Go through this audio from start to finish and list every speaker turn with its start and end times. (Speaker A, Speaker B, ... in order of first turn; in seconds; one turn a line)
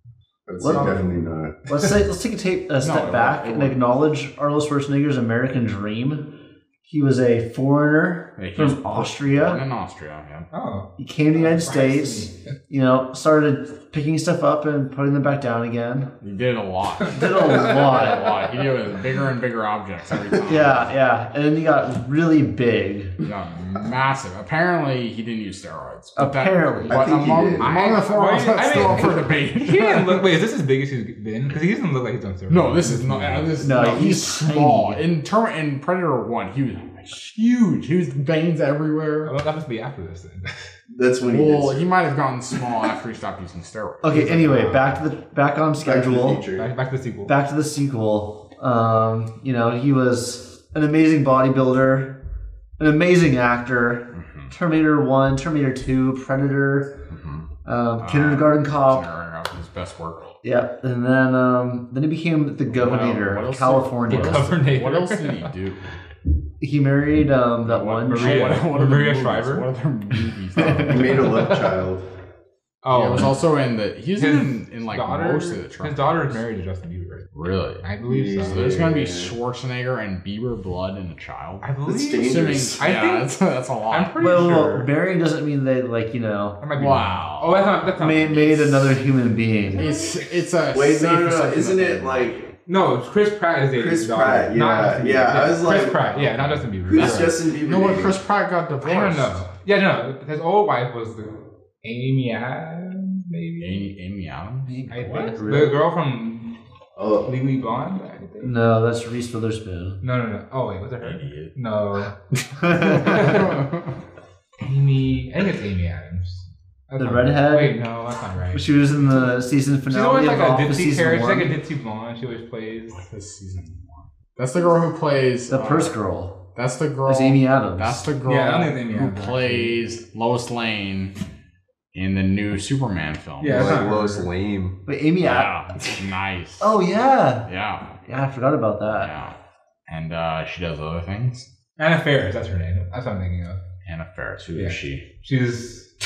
Speaker A: 0.5-1.6
Speaker B: 0.6-1.0
Speaker C: 0.7-2.0
Speaker B: 1.7-9.6
Speaker D: 2.8-3.8
Speaker D: 8.4-10.5
Speaker C: 10.5-12.4
Speaker B: 11.0-16.1
Speaker D: 16.2-20.9
Speaker B: 17.1-18.4
Speaker C: 17.2-18.0
Speaker B: 20.4-23.2
Speaker D: 23.2-30.3
Speaker B: 26.2-27.5
Speaker A: 26.9-28.0
Speaker C: 27.6-33.6
Speaker B: 28.7-29.1
Speaker D: 32.5-39.4
Speaker B: 33.6-35.0
Speaker C: 39.2-40.6
Speaker A: 40.9-41.9
Speaker D: 41.3-45.0
Speaker B: 44.0-46.4
Speaker A: 45.8-46.7
Speaker C: 46.5-47.3
Speaker B: 47.3-52.2
Speaker B: 52.8-57.0
Speaker D: 54.1-54.5
Speaker B: 57.6-59.0
Speaker D: 58.0-60.4
Speaker B: 60.4-64.5
Speaker D: 62.7-65.9
Speaker C: 64.1-65.5
Speaker B: 66.6-68.6
Speaker D: 67.7-71.3
Speaker C: 68.1-69.7
Speaker A: 70.7-72.1
Speaker C: 70.8-71.8
Speaker C: 72.8-73.3
Speaker D: 72.9-76.4
Speaker C: 74.2-77.3
Speaker D: 77.3-77.9
Speaker C: 77.8-78.7
Speaker A: 78.0-79.3
Speaker D: 78.5-84.5
Speaker C: 81.6-83.3
Speaker A: 81.8-82.8
Speaker C: 83.9-84.9
Speaker B: 84.2-86.6
Speaker C: 86.6-88.9
Speaker D: 86.8-87.7
Speaker B: 87.9-89.9
Speaker D: 89.7-92.5
Speaker A: 90.7-92.5
Speaker C: 92.7-97.4
Speaker A: 93.8-98.2
Speaker D: 96.9-99.5
Speaker C: 98.8-103.9
Speaker D: 103.6-104.7
Speaker B: 104.7-105.8
Speaker C: 104.9-106.6
Speaker A: 107.0-107.3
Speaker C: 107.2-108.7
Speaker B: 108.4-110.0
Speaker C: 110.0-112.2
Speaker D: 111.0-111.6
Speaker B: 112.7-113.1
Speaker D: 112.7-114.0
Speaker C: 112.8-113.5
Speaker C: 114.6-119.2
Speaker B: 117.0-117.9
Speaker B: 118.5-121.6
Speaker C: 119.9-123.0
Speaker D: 122.9-126.0
Speaker B: 125.5-126.5
Speaker D: 126.5-131.2
Speaker B: 127.1-128.1
Speaker C: 128.2-129.8
Speaker D: 131.9-133.9
Speaker C: 133.4-134.3
Speaker A: 133.5-134.8
Speaker B: 134.9-135.6
Speaker D: 135.2-136.8
Speaker B: 136.6-137.5
Speaker D: 137.4-138.1
Speaker B: 138.1-139.2
Speaker D: 139.0-139.4
Speaker D: 139.9-141.5
Speaker C: 141.8-143.6
Speaker D: 143.9-145.1
Speaker C: 144.5-145.9